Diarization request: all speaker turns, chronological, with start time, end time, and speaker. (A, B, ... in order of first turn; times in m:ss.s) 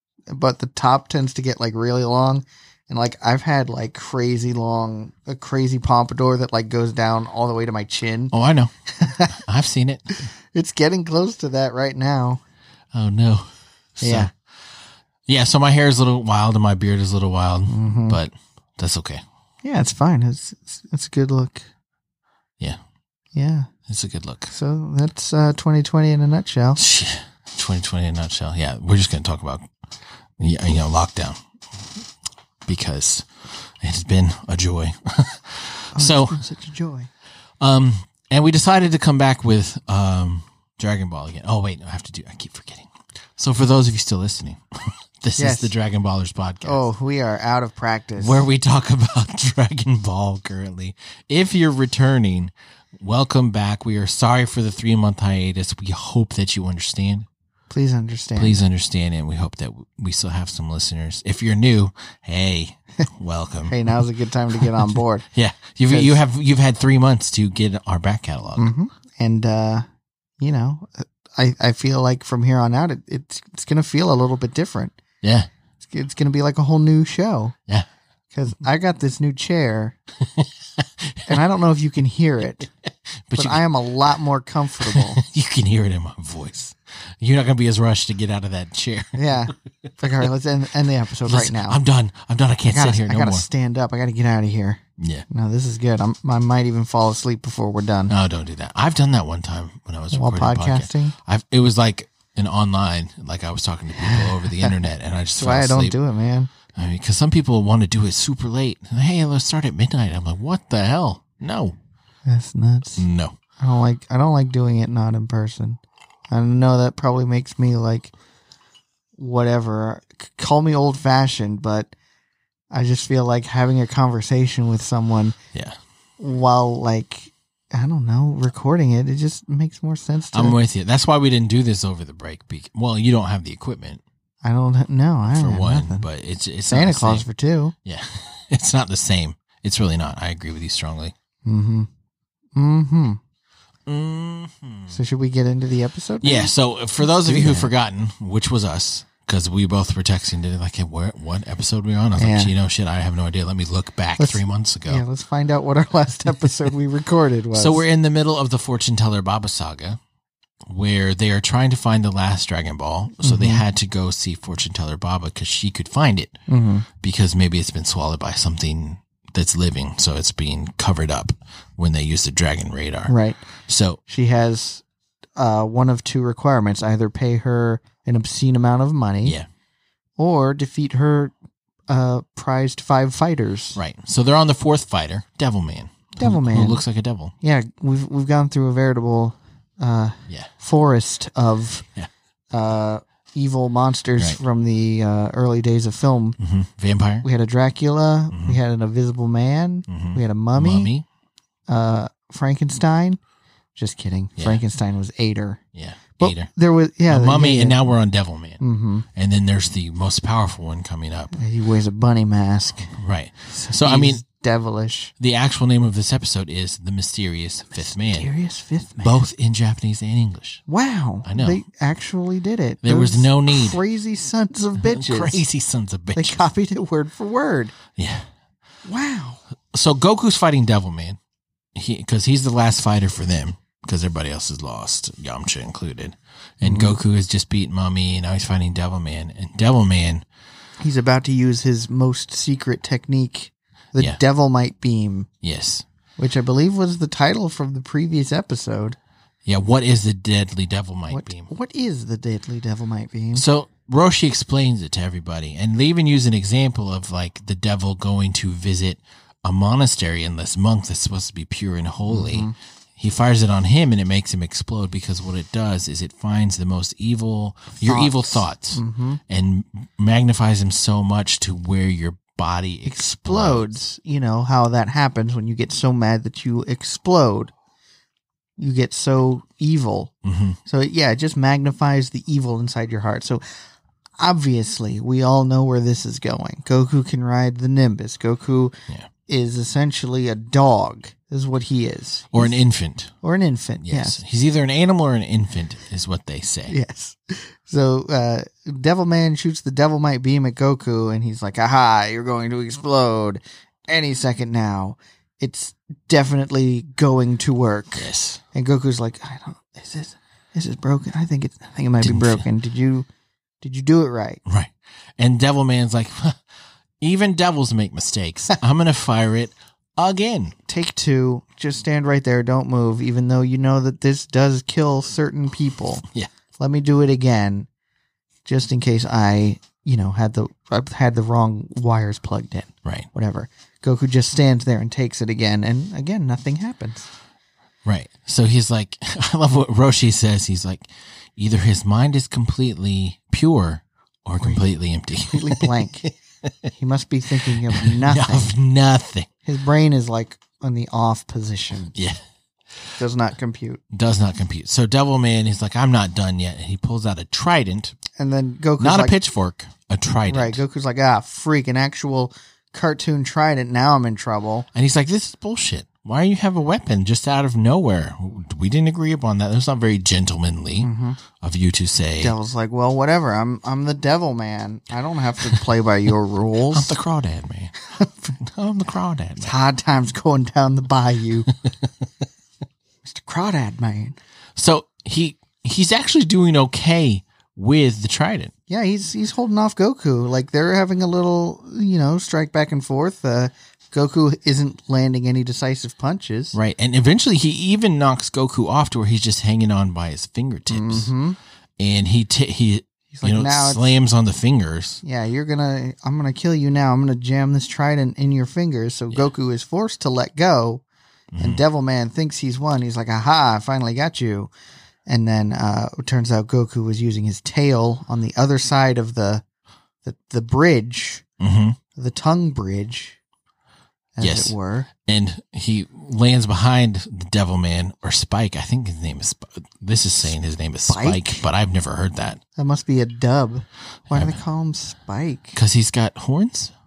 0:00.3-0:08.3 A
0:08.3-0:08.7 B
0:08.9-0:09.4 A
0:09.3-0:10.1 B
0:10.2-0:12.4 A
0:12.9-0:14.3 B
0:14.0-0:14.3 A
0:15.3-0:19.2 B
0:17.7-0:18.2 A
0:19.6-0:21.7 A
0:23.3-0:23.7 A
0:23.9-0:24.5 B
0:24.5-0:26.8 A
0:26.8-0:29.7 B
0:30.4-0:31.4 B
0:32.6-0:36.4 B
0:36.0-0:37.1 A
0:37.6-0:46.8 B
0:45.4-0:45.7 A
0:46.6-0:48.5 A
0:48.2-0:57.3 B
0:57.7-0:58.6 A
0:58.4-1:08.7 B
1:03.7-1:05.2 A
1:05.9-1:06.2 A
1:08.6-1:09.9 A
1:10.4-1:15.0 A
1:15.2-1:15.5 B
1:15.8-1:17.6 A
1:18.3-1:20.0 A
1:20.2-1:21.4 B
1:21.3-1:22.7 A
1:22.8-1:23.7 B
1:23.4-1:25.2 A
1:24.8-1:29.3 B
1:29.2-1:31.8 A
1:31.2-1:33.5 B
1:32.7-1:38.1 A
1:35.0-1:35.3 B
1:38.1-1:46.0 B
1:40.1-1:41.2 A
1:43.9-1:46.5 A
1:46.7-1:51.8 B
1:52.3-1:53.0 A
1:53.0-1:53.4 B
1:53.6-1:55.8 A
1:56.3-1:58.1 A
1:59.2-2:01.9 A
2:02.7-2:05.4 A
2:06.2-2:10.6 A
2:10.3-2:14.0 B
2:14.4-2:16.1 A
2:15.2-2:17.3 B
2:16.7-2:17.7 A
2:17.8-2:21.1 B
2:21.5-2:21.9 A
2:22.6-2:23.2 A
2:23.9-2:25.0 B
2:24.9-2:27.7 A
2:26.2-2:35.0 B
2:32.2-2:32.5 A
2:34.2-2:37.8 A
2:37.5-2:40.0 B
2:40.7-2:46.4 B
2:43.2-2:43.6 A
2:46.5-2:46.9 A
2:47.0-2:53.2 B
2:53.1-2:53.4 A
2:53.7-2:54.0 B
2:54.1-2:54.8 A
2:55.4-2:59.4 A
3:00.2-3:01.3 A
3:01.9-3:03.8 A
3:03.8-3:07.3 B
3:06.2-3:06.8 A
3:07.4-3:11.9 A
3:12.5-3:16.4 A
3:16.4-3:17.3 B
3:17.2-3:20.9 A
3:18.3-3:18.6 B
3:19.9-3:21.0 B
3:21.7-3:23.2 A
3:23.8-3:25.6 A
3:24.4-3:24.6 B
3:25.8-3:26.5 B
3:26.2-3:27.8 A
3:27.1-3:28.6 B
3:28.6-3:29.1 A
3:29.1-3:31.3 B
3:31.3-3:33.0 A
3:32.9-3:34.2 B
3:33.5-3:35.1 A
3:35.2-3:38.3 B
3:37.8-3:39.2 A
3:39.0-3:40.6 B
3:40.7-3:45.4 A
3:41.2-3:41.6 B
3:42.8-3:43.8 B
3:44.8-3:46.4 B
3:46.2-3:47.8 A
3:48.0-3:48.3 B
3:48.9-3:49.4 A
3:49.7-3:51.2 B
3:51.8-4:00.2 B
3:56.6-3:57.0 A
4:00.8-4:05.3 A
4:05.4-4:05.8 B
4:06.2-4:09.0 A
4:09.4-4:11.5 B
4:11.1-4:13.5 A
4:13.3-4:33.8 B
4:22.1-4:22.6 A
4:27.8-4:29.2 A
4:32.8-4:37.5 A
4:38.6-4:40.1 A
4:40.2-4:40.6 B
4:40.7-4:43.4 A
4:44.2-4:48.8 A
4:49.3-4:52.6 A
4:52.3-4:53.1 B
4:53.2-4:54.2 A
4:53.8-4:56.8 B
4:56.7-5:13.1 A
5:08.0-5:08.4 B
5:12.0-5:12.5 B
5:13.6-5:14.4 A
5:14.5-5:16.4 B
5:17.0-5:20.6 B
5:20.7-5:26.0 A
5:26.6-5:27.7 A
5:28.5-5:37.1 A
5:37.8-5:46.5 B
5:45.2-5:46.1 A
5:46.7-5:48.5 A
5:47.5-5:49.3 B
5:49.4-5:52.0 A
5:52.0-5:52.2 B
5:53.0-5:53.8 A
5:53.9-5:58.0 B
5:58.2-5:59.2 A
5:58.8-6:00.6 B
6:00.3-6:04.7 A
6:04.7-6:12.4 B
6:10.8-6:11.2 A
6:12.2-6:17.0 A
6:16.7-6:17.8 B
6:17.9-6:18.3 A
6:18.3-6:19.5 B
6:19.4-6:21.5 A
6:23.0-6:24.2 A
6:24.6-6:28.5 B
6:28.7-6:36.6 A
6:36.5-6:41.1 B
6:40.7-6:41.4 A
6:41.8-6:45.0 B
6:43.1-6:43.9 A
6:45.0-6:50.8 A
6:51.3-6:51.6 B
6:51.4-6:54.5 A
6:55.1-6:59.4 A
7:00.0-7:01.2 A
7:01.4-7:01.8 B
7:02.0-7:03.2 A
7:04.2-7:04.9 A
7:04.2-7:12.4 B
7:10.9-7:11.4 A
7:12.6-7:15.6 A
7:14.1-7:14.4 B
7:15.5-7:16.7 B